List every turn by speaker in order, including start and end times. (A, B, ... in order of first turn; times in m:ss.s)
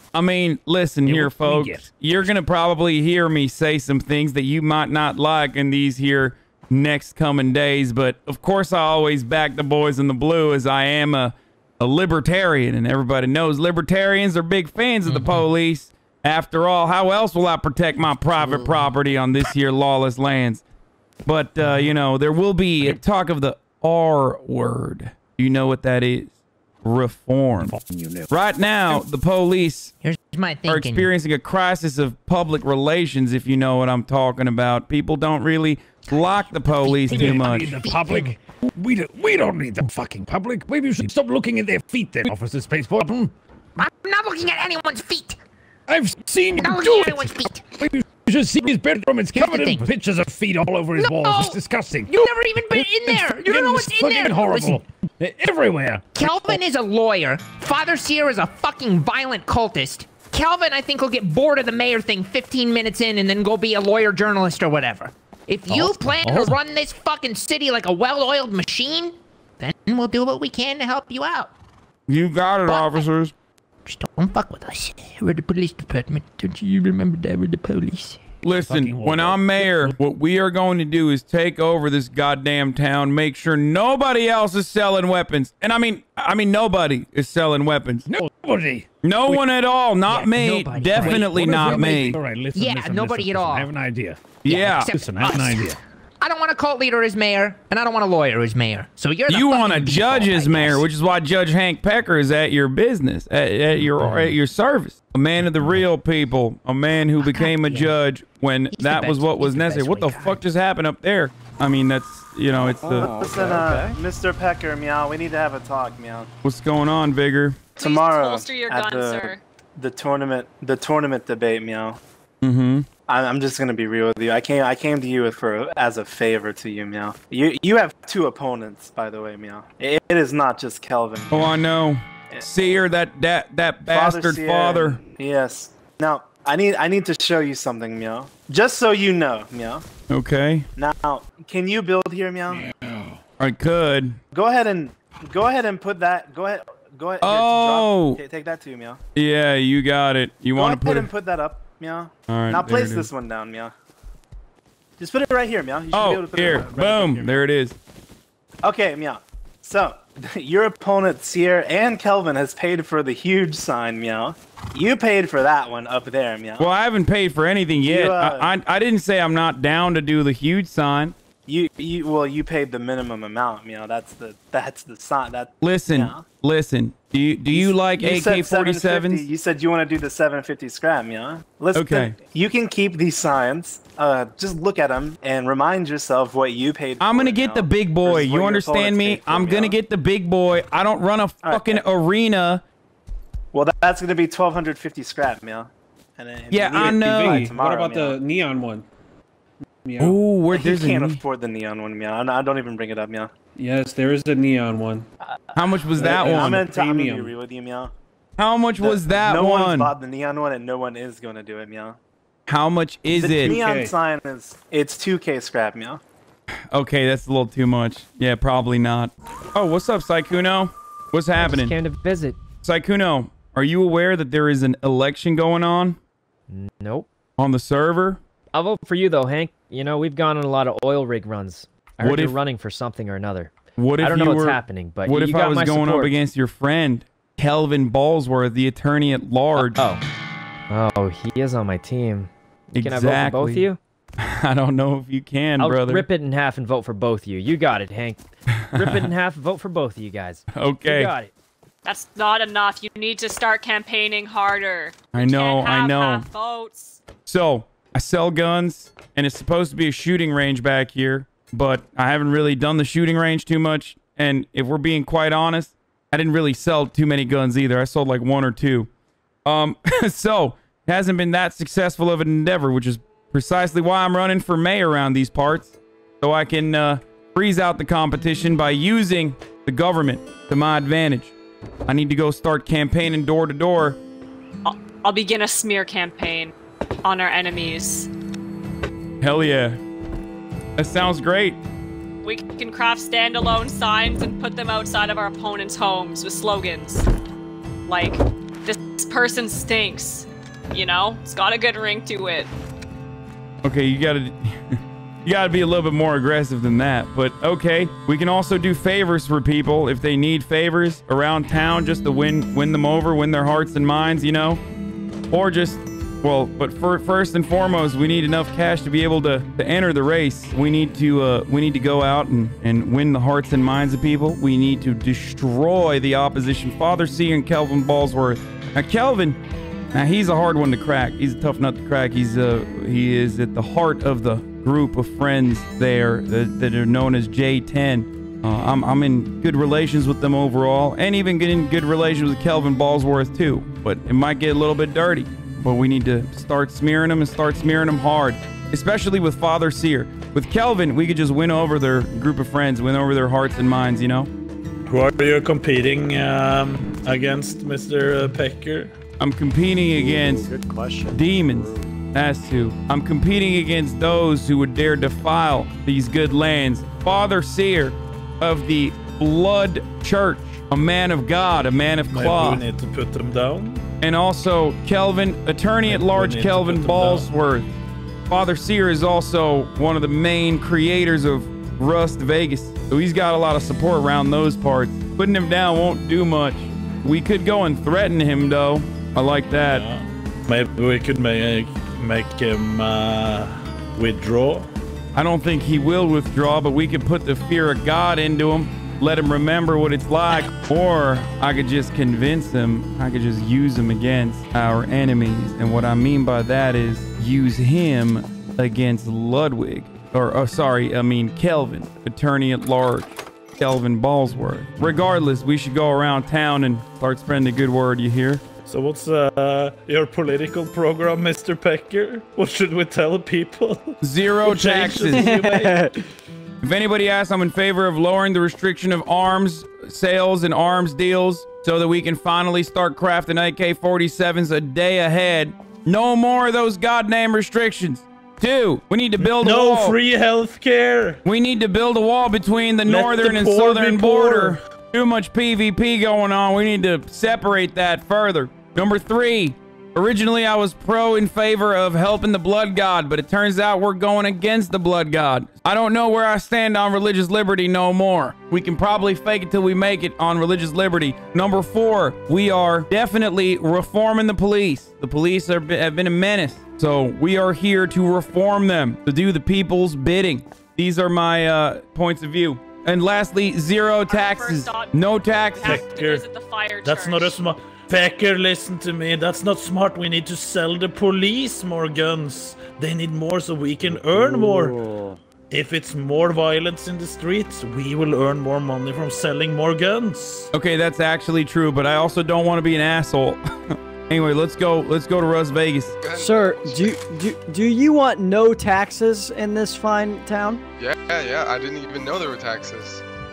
0:00.1-0:20.6 A
0:01.0-0:01.9 B
0:18.4-0:18.7 B
0:21.2-0:26.3 A
0:21.6-0:21.9 B
0:26.8-0:27.8 A
0:27.6-0:28.3 B
0:28.3-0:29.9 A
0:30.0-0:31.1 C
0:30.6-0:37.8 A
0:36.0-0:38.3 C
0:37.0-0:43.3 B
0:43.8-0:45.4 C
0:45.9-0:56.6 B
0:46.6-0:47.6 C
0:49.3-0:49.9 C
0:50.9-0:54.8 C
0:56.1-1:11.5 C
1:05.7-1:06.6 B
1:12.1-1:13.3 A
1:12.6-1:13.1 C
1:13.8-1:18.2 C
1:18.4-1:28.0 A
1:18.6-1:20.0 B
1:28.0-1:29.5 B
1:29.0-1:32.2 A
1:30.1-1:31.3 C
1:30.3-1:35.8 B
1:32.5-1:33.7 C
1:34.4-1:34.9 A
1:34.4-1:40.9 C
1:39.3-1:53.1 A
1:47.2-1:48.0 C
1:48.7-1:50.4 C
1:52.8-1:54.0 D
1:53.0-1:56.3 E
1:56.4-1:57.6 A
1:57.8-1:59.4 F
1:57.8-2:02.0 E
2:02.4-2:02.9 A
2:03.1-2:11.5 E
2:11.3-2:15.0 A
2:13.9-2:19.8 E
2:20.1-2:20.7 A
2:20.8-2:22.7 E
2:22.5-2:23.2 B
2:23.4-2:24.2 A
2:24.3-2:29.0 E
2:27.2-2:28.2 A
2:29.2-2:31.1 A
2:30.6-2:33.7 E
2:32.3-2:33.1 A
2:35.0-2:37.3 E
2:35.9-2:37.8 A
2:38.6-2:46.7 E
2:46.6-2:51.1 A
2:47.8-2:48.5 E
2:51.5-2:56.3 E
2:55.6-2:59.3 A
2:57.5-3:09.8 E
3:01.7-3:02.2 A
3:07.0-3:12.6 A
3:11.4-3:11.8 E
3:13.5-3:18.2 E
3:16.5-3:17.5 A
3:16.7-3:18.9 G
3:19.8-3:20.2 G
3:20.0-3:21.2 A
3:20.5-3:23.3 E
3:23.6-3:25.1 G
3:25.2-3:27.9 E
3:25.5-3:26.6 A
3:26.0-3:27.3 G
3:28.4-3:29.9 A
3:28.8-3:32.0 E
3:32.5-3:33.6 A
3:33.1-3:36.0 E
3:33.4-3:33.9 G
3:36.7-3:41.8 A
3:41.4-3:42.4 H
3:42.6-3:46.0 A
3:46.5-3:47.1 H
3:47.4-3:48.2 A
3:48.5-3:56.2 H
3:52.0-3:52.4 A
3:53.8-3:59.8 A
3:59.5-4:00.0 H
4:00.7-4:03.8 H
4:02.7-4:06.1 A
4:05.6-4:11.3 H
4:08.5-4:09.1 A
4:10.5-4:11.1 A
4:11.8-4:17.0 F
4:15.1-4:16.2 A
4:17.2-4:28.9 A
4:29.4-4:41.3 A
4:41.9-4:44.0 A
4:44.6-4:46.5 F
4:47.0-4:48.1 F
4:49.2-4:49.8 A
4:50.8-4:51.6 A
4:52.2-4:57.0 F
4:57.8-5:02.5 F
5:03.6-5:14.6 A
5:15.3-5:29.4 A
5:29.9-5:54.3 A
5:54.9-5:58.9 I
5:59.2-6:00.5 A
5:59.9-6:01.8 D
6:01.1-6:12.6 A
6:12.1-6:13.8 I
6:14.0-6:17.7 A
6:15.8-6:17.3 I
6:18.3-6:29.8 A
6:29.6-6:34.7 I
6:35.1-6:58.4 A
6:58.6-7:05.7 I
7:04.0-7:05.4 A
7:04.8-7:05.9 D
7:06.6-7:20.0 A
7:19.2-7:21.2 I
7:21.2-7:55.8 A
7:22.8-7:24.6 I
7:54.1-7:57.4 F
7:55.6-7:56.2 I
7:56.8-8:04.8 I
8:04.1-8:04.6 D
8:05.5-8:10.5 I
8:10.5-8:16.0 A
8:16.0-8:16.9 J
8:16.1-8:20.6 D
8:20.8-8:23.0 J